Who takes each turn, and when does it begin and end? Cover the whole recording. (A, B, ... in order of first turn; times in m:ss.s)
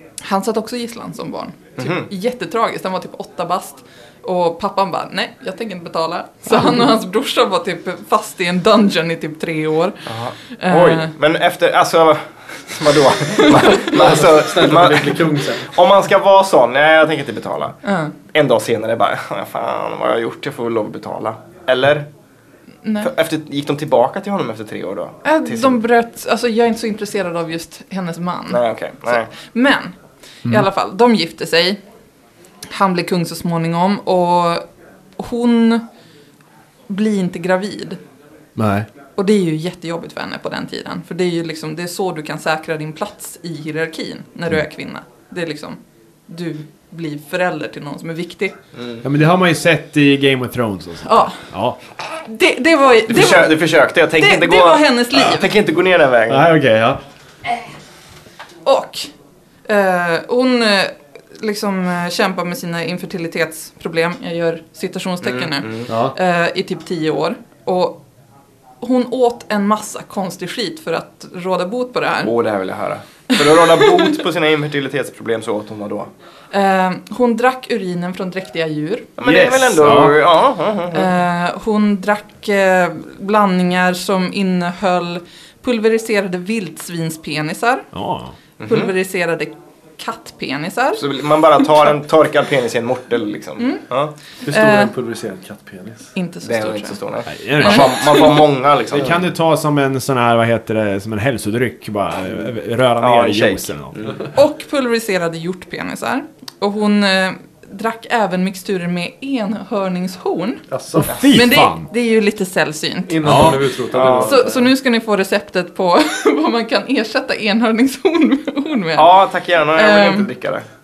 0:00.2-0:10.0 A
0:01.8-0:02.1 B
0:10.1-0:17.8 B
0:10.6-0:11.1 A
0:13.4-0:13.9 A
0:13.9-0:15.7 C
0:17.8-0:18.1 A
0:18.3-0:22.1 B
0:22.8-0:23.1 A
0:23.0-0:25.8 B
0:25.2-0:31.8 A
0:28.5-0:29.3 B
0:32.7-0:34.6 A
0:35.2-0:35.8 A
0:36.9-0:38.0 A
0:38.6-0:38.9 D
0:39.2-0:48.5 A
0:48.7-0:49.0 B
0:49.0-0:51.8 D
0:51.0-0:51.4 A
0:52.2-0:53.7 A
0:53.1-0:56.5 B
0:54.2-0:55.5 A
0:56.3-0:57.0 D
0:58.6-0:59.1 A
0:59.6-1:08.0 A
1:05.2-1:05.9 B
1:05.9-1:06.1 D
1:08.8-1:12.3 A
1:12.2-1:16.1 B
1:13.4-1:14.1 A
1:16.5-1:19.1 A
1:19.2-1:21.1 B
1:19.2-1:20.2 D
1:20.9-1:27.9 A
1:27.9-1:28.3 D
1:28.6-1:28.9 B
1:28.6-1:31.0 A
1:31.0-1:34.1 B
1:34.4-1:36.1 C
1:34.5-1:34.9 A
1:36.1-1:37.0 A
1:36.4-1:39.2 B
1:37.3-1:38.3 D
1:37.6-1:38.5 A
1:38.9-1:44.2 D
1:43.0-1:44.2 B
1:44.3-1:50.6 A
1:50.7-1:51.1 C
1:51.0-1:51.9 D
1:51.3-1:53.6 A
1:53.1-1:54.7 C
1:53.2-1:53.6 D
1:53.9-1:54.4 B
1:54.2-1:59.1 A
1:59.0-2:00.6 B
1:59.7-2:00.3 A